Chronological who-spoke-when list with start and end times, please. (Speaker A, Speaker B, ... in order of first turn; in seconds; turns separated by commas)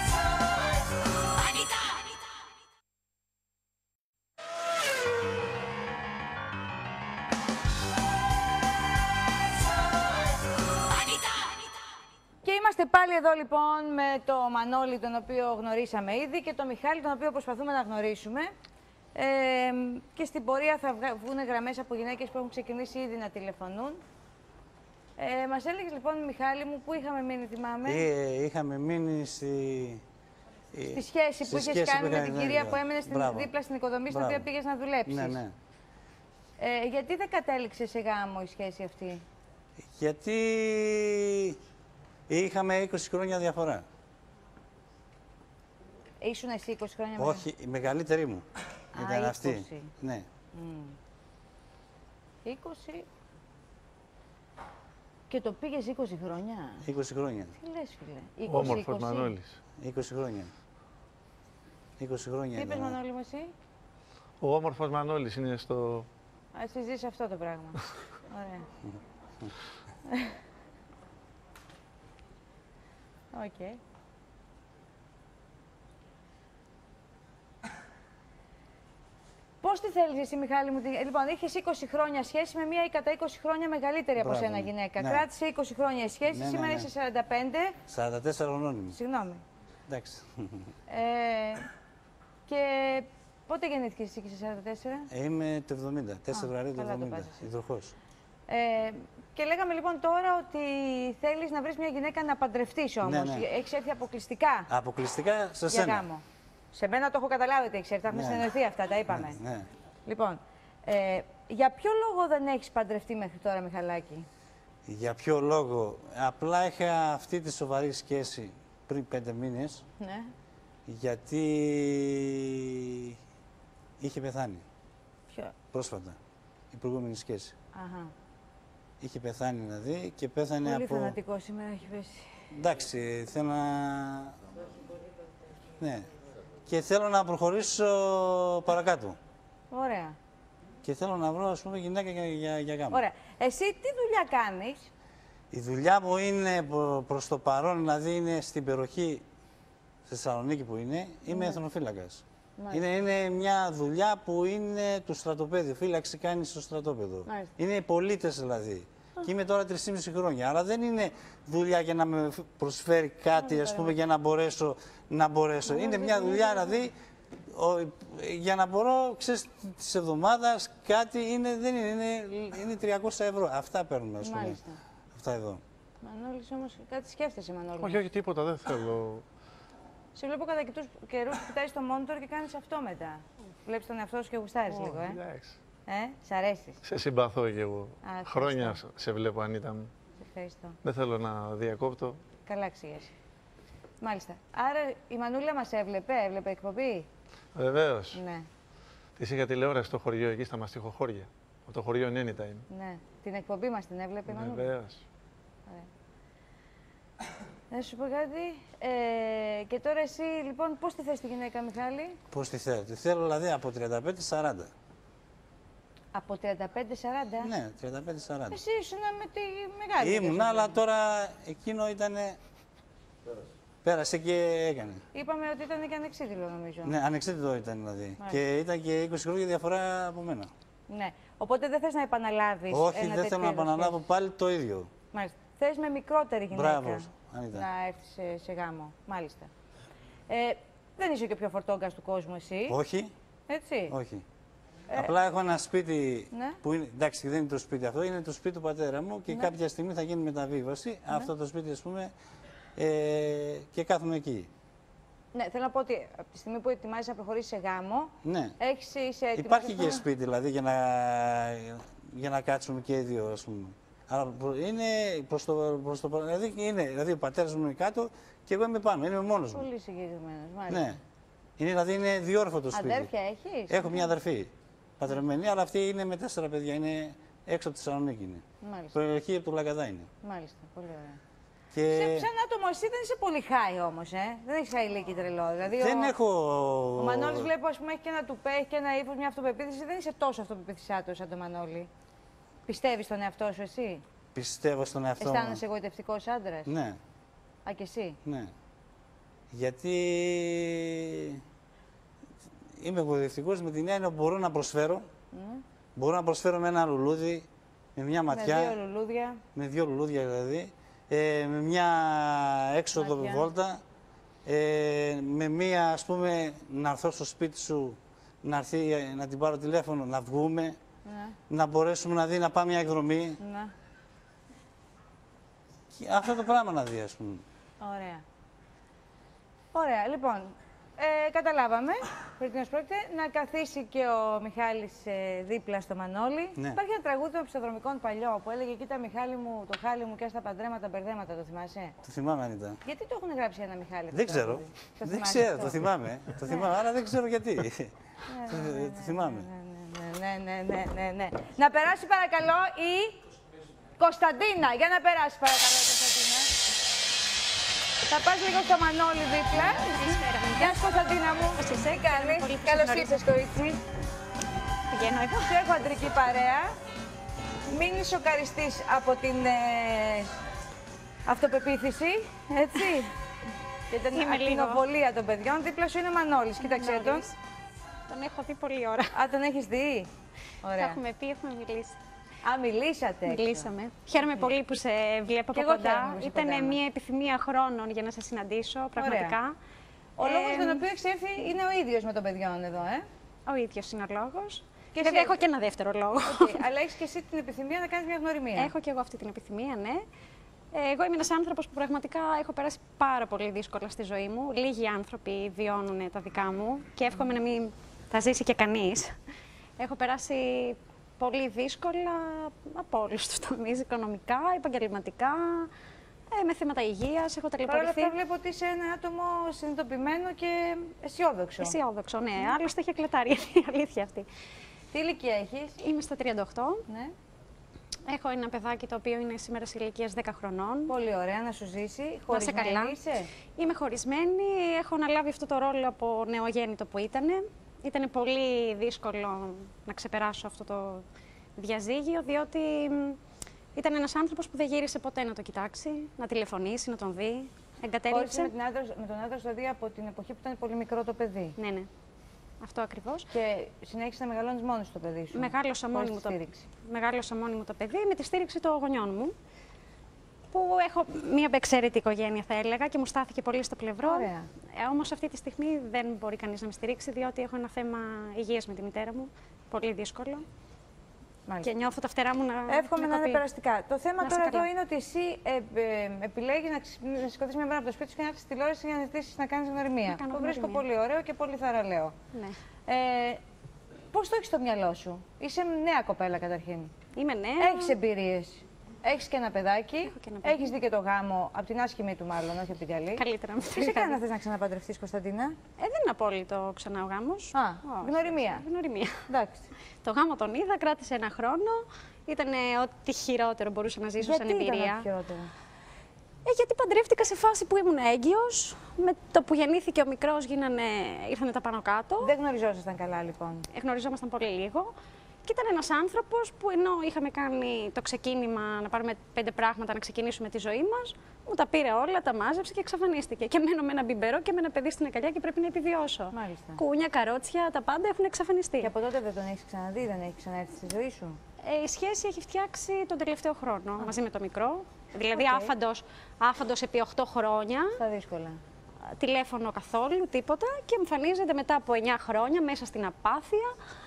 Speaker A: 12.4-18.5, Speaker A: 19.1-24.0, Speaker A: 25.2-28.1, Speaker B: 27.9-30.0, Speaker B: 30.7-33.5, Speaker A: 30.9-35.4, Speaker B: 34.1-34.5, Speaker B: 35.1-35.5, Speaker A: 36.6-39.2, Speaker B: 39.8-41.6, Speaker B: 42.3-43.8, Speaker A: 46.2-47.5, Speaker B: 47.2-50.3, Speaker A: 49.0-50.0, Speaker A: 50.5-51.0, Speaker A: 52.5-53.1, Speaker A: 55.3-56.9, Speaker B: 56.8-57.5, Speaker A: 57.6-59.3, Speaker C: 58.5-59.6, Speaker B: 59.8-60.5, Speaker B: 62.0-63.0, Speaker A: 62.5-63.5, Speaker C: 64.4-66.1, Speaker A: 66.5-68.7, Speaker B: 68.9-69.5, Speaker A: 70.1-70.3, Speaker A: 73.3-73.8, Speaker A: 79.6-87.8, Speaker B: 84.2-85.3, Speaker B: 86.3-86.9, Speaker B: 87.9-89.0, Speaker A: 88.9-89.4, Speaker B: 89.9-90.7, Speaker A: 90.9-91.7, Speaker A: 92.5-95.1, Speaker B: 95.1-98.0, Speaker A: 96.3-97.5, Speaker A: 98.5-104.7, Speaker B: 103.0-103.5, Speaker B: 104.7-106.0, Speaker A: 105.7-109.4, Speaker B: 108.1-108.5, Speaker B: 109.1-109.7, Speaker A: 110.1-114.3, Speaker B: 114.9-119.8, Speaker A: 120.0-120.3, Speaker B: 120.9-123.2, Speaker B: 124.0-124.7, Speaker B: 125.7-126.2, Speaker B: 126.7-127.5, Speaker A: 127.7-128.1, Speaker B: 129.0-131.2, Speaker A: 130.6-132.3, Speaker B: 132.5-134.3, Speaker B: 135.8-136.1, Speaker B: 136.7-139.2, Speaker A: 139.7-140.2, Speaker B: 140.8-143.0, Speaker A: 142.9-144.9, Speaker B: 145.5-149.2, Speaker B: 150.1-166.9, Speaker A: 151.3-151.6, Speaker A: 152.6-152.8, Speaker A: 157.3-157.5, Speaker A: 163.3-163.9, Speaker A: 165.7-166.8, Speaker B: 167.5-174.6, Speaker A: 174.2-174.8, Speaker B: 175.1-175.6, Speaker A: 176.0-178.1, Speaker C: 177.8-179.2, Speaker A: 180.2-185.2, Speaker C: 184.7-185.6, Speaker A: 185.9-186.8, Speaker C: 186.8-189.9, Speaker A: 188.0-188.8, Speaker A: 190.2-190.8, Speaker C: 190.8-192.2, Speaker A: 192.5-193.1, Speaker A: 194.0-197.1, Speaker C: 197.6-198.2, Speaker A: 198.1-198.5, Speaker C: 199.2-202.7, Speaker A: 202.7-204.7, Speaker C: 204.3-205.0, Speaker A: 207.7-212.2, Speaker B: 212.3-214.7, Speaker A: 216.1-217.5, Speaker B: 217.4-218.6, Speaker A: 218.5-220.8, Speaker B: 220.0-222.4, Speaker B: 223.8-225.0, Speaker A: 225.1-226.9, Speaker B: 226.8-230.5, Speaker A: 230.9-234.0, Speaker B: 232.7-234.9, Speaker A: 235.1-239.5, Speaker B: 236.5-237.7, Speaker A: 240.3-242.8, Speaker B: 242.7-243.1, Speaker A: 243.5-243.9, Speaker B: 243.9-244.2, Speaker B: 244.9-252.1, Speaker A: 246.3-246.6, Speaker B: 252.8-254.5, Speaker A: 255.3-260.1, Speaker B: 258.2-258.5, Speaker B: 259.4-269.7, Speaker A: 269.5-271.0, Speaker B: 270.7-271.0, Speaker B: 271.6-273.1, Speaker A: 272.7-274.1, Speaker B: 273.7-278.4, Speaker A: 278.6-279.0, Speaker B: 278.9-280.1, Speaker A: 280.2-281.2, Speaker B: 281.7-282.3, Speaker A: 281.9-286.1, Speaker B: 285.8-287.5, Speaker A: 287.0-291.9, Speaker A: 292.7-294.0, Speaker B: 294.4-295.6, Speaker A: 295.2-296.7, Speaker B: 296.7-297.0, Speaker A: 297.7-298.2, Speaker B: 298.2-298.5, Speaker B: 299.5-301.4, Speaker B: 302.8-305.1, Speaker A: 305.3-305.6, Speaker B: 306.0-308.8, Speaker A: 308.3-309.4, Speaker B: 309.6-313.8, Speaker A: 313.0-313.5, Speaker B: 314.4-320.8, Speaker A: 321.1-321.4, Speaker B: 321.5-323.4, Speaker A: 323.4-323.7, Speaker B: 325.9-327.4, Speaker A: 327.8-328.2, Speaker A: 329.7-342.0, Speaker B: 342.0-342.8, Speaker A: 342.9-345.8, Speaker B: 344.1-347.9, Speaker A: 348.3-353.2, Speaker B: 348.4-349.5, Speaker A: 354.0-356.5, Speaker A: 358.1-363.8, Speaker D: 359.5-360.9, Speaker D: 361.6-363.2, Speaker D: 364.9-365.6, Speaker A: 365.4-366.7, Speaker A: 367.7-370.3, Speaker A: 371.3-373.1, Speaker A: 373.9-377.3, Speaker D: 374.1-374.8, Speaker D: 376.6-377.3, Speaker D: 378.1-379.1, Speaker A: 379.1-380.1, Speaker A: 380.6-381.0, Speaker D: 380.8-382.0, Speaker A: 382.4-383.7, Speaker D: 383.3-389.6, Speaker A: 384.2-384.5, Speaker A: 385.5-386.8, Speaker A: 389.0-389.4, Speaker A: 390.2-393.1, Speaker D: 390.2-390.8, Speaker D: 393.5-396.6, Speaker A: 394.9-395.4, Speaker A: 396.3-398.7, Speaker D: 398.6-400.1, Speaker D: 400.7-409.1, Speaker D: 409.8-415.7, Speaker D: 416.3-418.1, Speaker A: 417.7-421.8, Speaker D: 421.6-424.3, Speaker A: 424.9-425.8, Speaker D: 425.8-426.8, Speaker A: 426.9-427.1, Speaker D: 428.1-430.9, Speaker A: 430.9-433.3, Speaker D: 432.3-433.0, Speaker D: 433.6-441.0, Speaker D: 441.6-443.2, Speaker D: 443.8-448.5, Speaker A: 448.1-451.6, Speaker D: 451.6-451.9, Speaker D: 452.6-453.3, Speaker A: 453.3-456.6, Speaker D: 455.4-459.4, Speaker D: 460.5-470.4, Speaker A: 464.0-464.5, Speaker D: 471.6-473.4, Speaker A: 472.7-482.2, Speaker D: 474.2-474.7, Speaker D: 480.1-480.8, Speaker A: 482.9-483.4, Speaker A: 484.1-486.9, Speaker D: 487.2-488.0, Speaker A: 487.6-495.6, Speaker D: 490.1-490.7, Speaker D: 493.2-494.2, Speaker D: 495.8-499.2, Speaker A: 497.5-498.6, Speaker A: 499.3-499.7, Speaker D: 500.0-505.1, Speaker A: 504.2-505.5, Speaker D: 506.4-512.3, Speaker A: 512.2-513.6, Speaker D: 513.7-514.9, Speaker D: 515.5-528.9, Speaker A: 526.3-526.8, Speaker A: 528.8-531.4, Speaker D: 531.6-537.9, Speaker A: 535.3-535.7, Speaker A: 538.0-538.6, Speaker D: 539.2-543.7